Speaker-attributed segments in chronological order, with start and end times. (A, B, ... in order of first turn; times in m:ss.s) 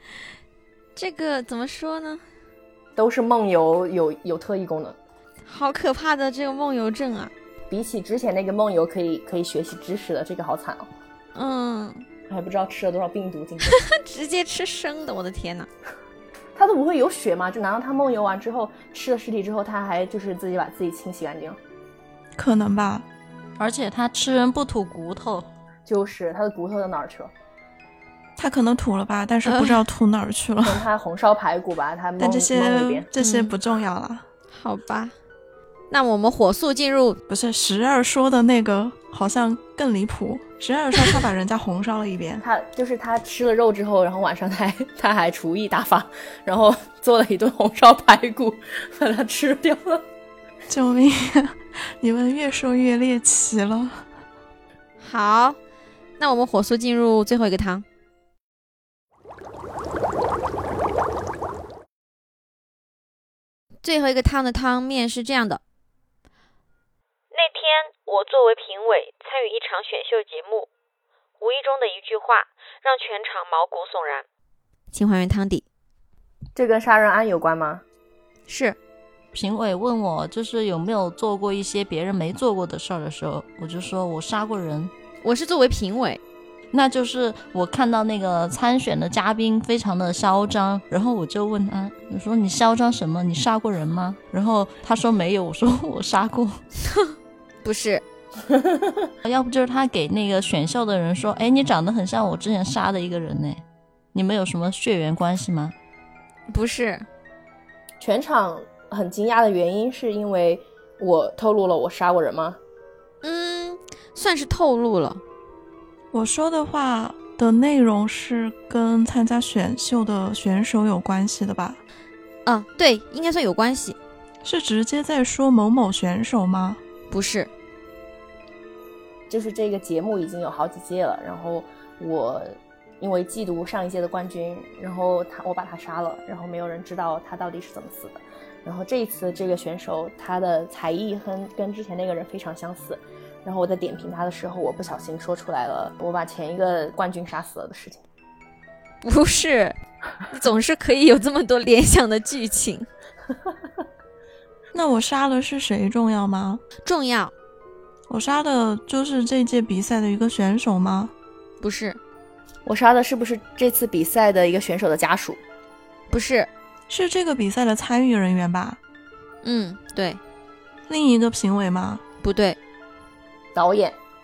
0:01.0-0:02.2 A
0:03.0-0:05.0 B
0:05.5-0:07.3 A
0:07.7-0:10.9 B
0:11.4-0:12.0 A
0:12.3-0:13.7 B
0:13.6-0:15.7 A
0:16.6-0:21.6 B
0:22.4-0:23.1 C
0:23.6-0:25.5 D
0:25.9-0:27.3 B
0:28.4-0:30.9 C
0:29.5-0:29.8 A
0:30.6-0:33.1 B
0:32.2-0:34.2 C
0:33.2-0:33.5 A
0:34.5-0:35.2 A
0:35.9-0:37.2 A
0:37.3-0:42.4 C
0:42.4-0:50.0 B
0:50.7-0:54.0 C
0:55.0-0:55.6 A
0:56.2-0:57.8 A
1:03.8-1:05.6 A
1:07.3-1:10.7 E
1:11.4-1:14.2 E
1:14.9-1:15.6 A
1:16.6-1:17.8 B
1:18.5-1:18.8 A
1:19.3-1:24.9 D
1:25.2-1:26.2 A
1:26.7-1:36.6 D
1:37.6-1:38.0 A
1:38.5-1:39.1 B
1:39.2-1:43.6 D
1:44.1-1:45.7 D
1:46.5-1:47.1 A
1:48.0-1:52.6 B
1:53.2-1:55.2 A
1:56.1-2:01.8 C
2:02.5-2:04.0 A
2:04.4-2:06.8 C
2:07.1-2:07.5 A
2:09.3-2:28.0 B
2:29.0-2:29.8 A
2:30.3-2:32.9 A
2:34.7-2:36.6 C
2:36.8-2:37.3 A
2:38.1-2:41.1 C
2:41.6-2:42.0 A
2:42.6-2:45.4 B
2:46.1-2:46.5 A
2:46.9-2:48.8 C
2:49.4-2:50.2 A
2:50.9-2:52.0 C
2:52.2-2:52.6 A
2:53.5-2:54.0 B